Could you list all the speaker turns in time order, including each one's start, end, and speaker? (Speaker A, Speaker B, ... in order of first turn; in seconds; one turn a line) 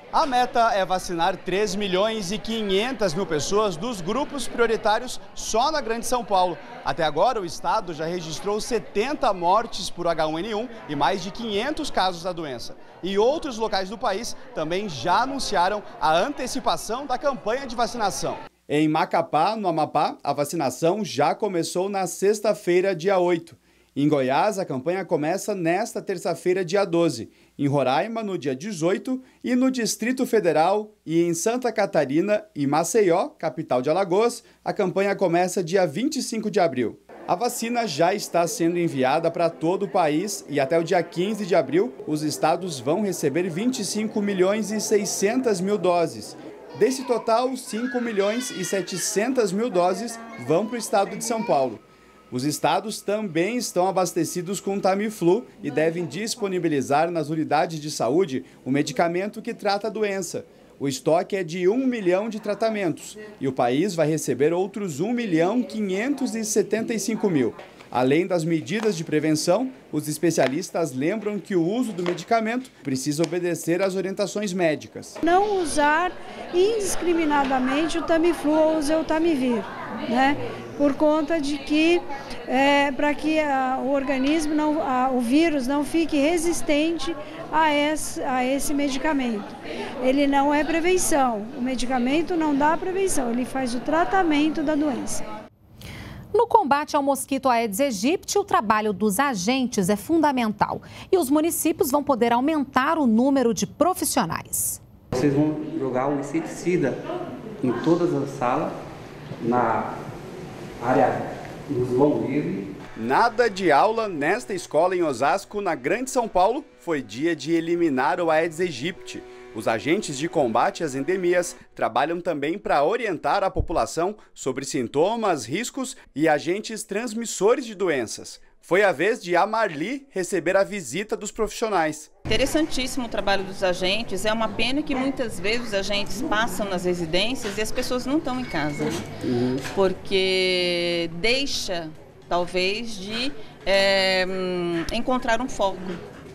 Speaker A: 0.1-75.2
Speaker B: 75.2-95.2
Speaker C: 96.3-104.8
Speaker D: 105.1-107.0
Speaker D: 107.6-108.8
Speaker D: 109.4-109.9
Speaker D: 110.8-112.7
Speaker A: 113.0-132.1
Speaker E: 132.3-139.1
Speaker D: 139.2-139.7
Speaker E: 139.7-146.0